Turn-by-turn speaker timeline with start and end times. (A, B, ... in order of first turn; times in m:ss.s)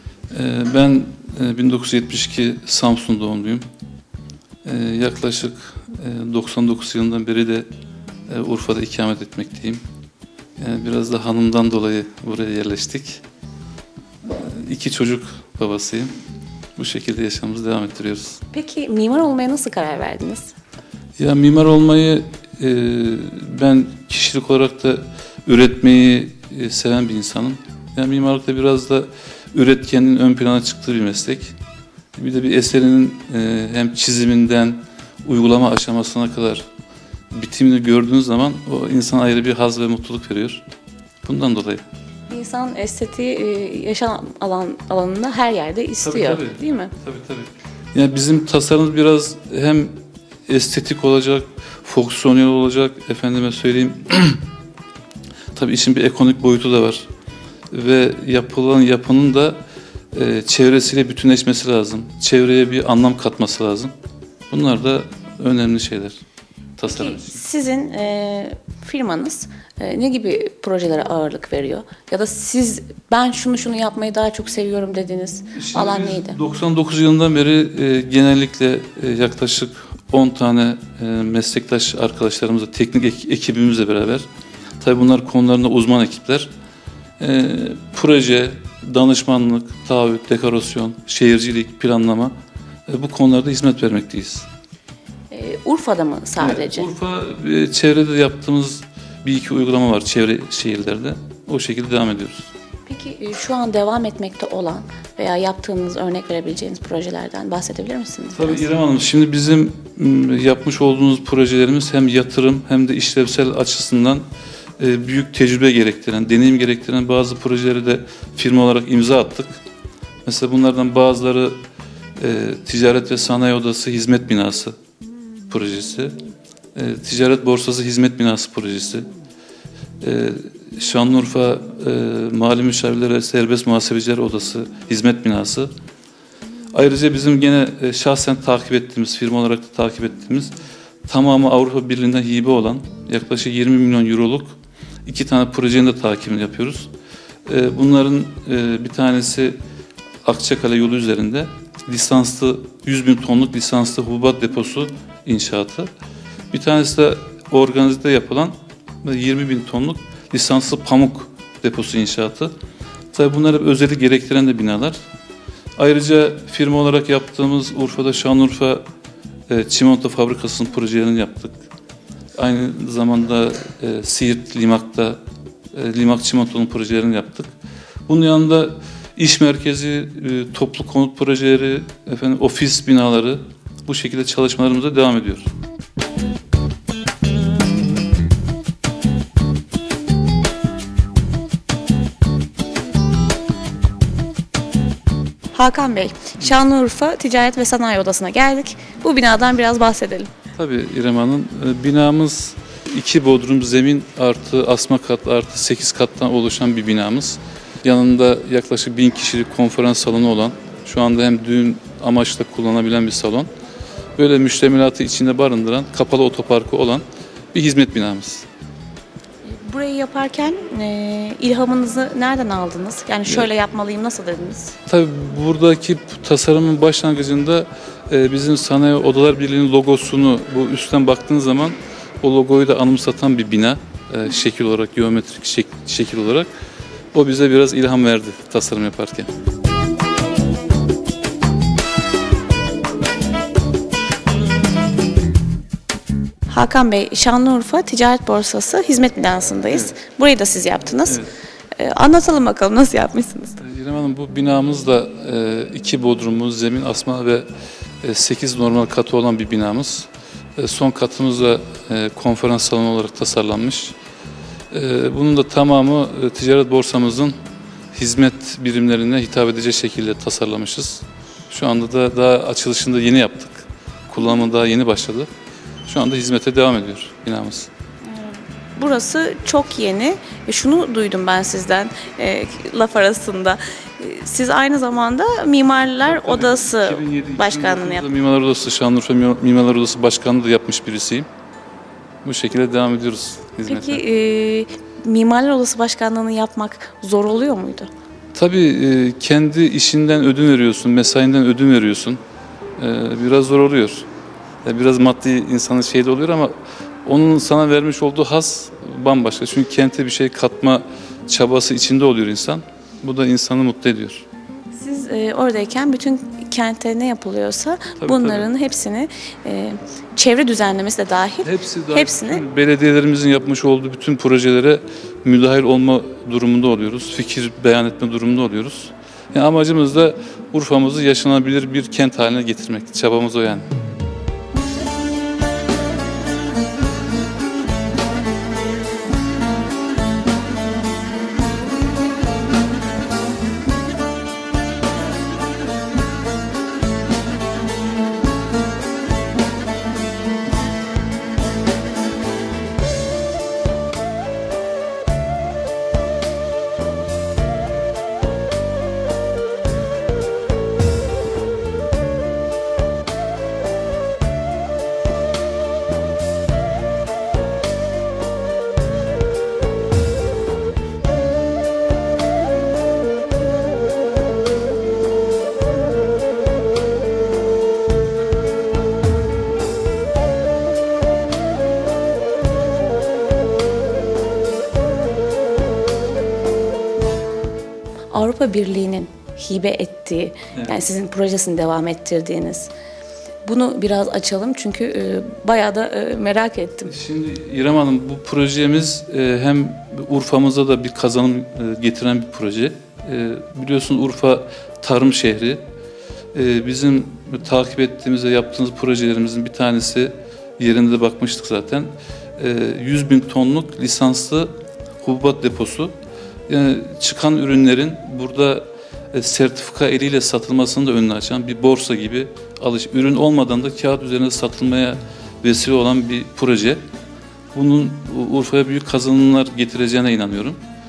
0:00.3-0:03.7 A
0:04.6-0:07.7 A
0:08.3-0:09.8 A
0:10.6-0:13.2 A
0:14.2-0:16.1 A
0:16.8-0:18.4 A
0:18.5-0:20.5 B
0:21.2-0:31.5 A
0:32.1-0:36.6 A
0:37.3-0:40.6 A
0:41.2-0:41.8 A
0:42.3-0:46.9 B
0:46.0-0:50.0 A
0:50.5-0:54.4 A
0:55.5-0:57.1 A
0:57.7-0:59.6 A
1:00.1-1:03.9 A
1:04.5-1:06.2 A
1:06.8-1:07.4 A
1:06.8-1:16.4 B
1:15.5-1:24.2 A
1:24.8-1:26.5 A
1:27.2-1:32.3 A
1:32.9-1:34.5 A
1:35.3-1:36.9 B
1:36.4-1:42.5 A
1:42.8-1:48.7 B
1:48.3-1:54.2 A
1:54.8-1:59.6 A
2:00.2-2:01.6 A
2:02.2-2:04.7 A
2:05.5-2:06.2 A
2:06.7-2:09.1 A
2:10.0-2:15.7 A
2:16.7-2:20.5 A
2:21.1-2:24.5 A
2:25.0-2:26.9 A
2:27.4-2:29.6 A
2:30.2-2:35.9 A
2:36.5-2:42.5 A
2:43.1-2:45.0 A
2:45.8-2:48.8 A
2:49.5-2:51.6 A
2:52.4-2:55.2 A
2:55.7-2:57.5 A
2:58.1-3:05.5 A
3:15.5-3:20.3 B
3:20.6-3:33.5 A
3:34.2-3:38.4 A
3:39.4-3:44.8 B
3:44.9-3:56.5 A
3:57.1-3:59.3 A
4:06.5-4:11.2 B
4:11.0-4:11.3 A
4:11.7-4:13.6 B
4:13.6-4:17.5 A
4:18.0-4:24.0 A
4:24.7-4:27.4 A
4:27.9-4:35.3 A
4:35.8-4:37.7 A
4:38.0-4:48.0 B
4:46.0-4:51.3 A
4:52.2-4:54.0 A
4:53.6-4:57.9 B
4:58.3-5:02.2 A
5:02.8-5:04.1 A
5:04.6-5:14.2 A
5:14.7-5:22.4 B
5:18.0-5:18.5 A
5:21.4-5:33.7 A
6:28.1-6:32.7 B
6:33.4-6:36.9 B
6:36.9-6:45.6 A
6:46.3-6:55.9 A
6:56.5-7:06.8 A
7:07.5-7:10.6 A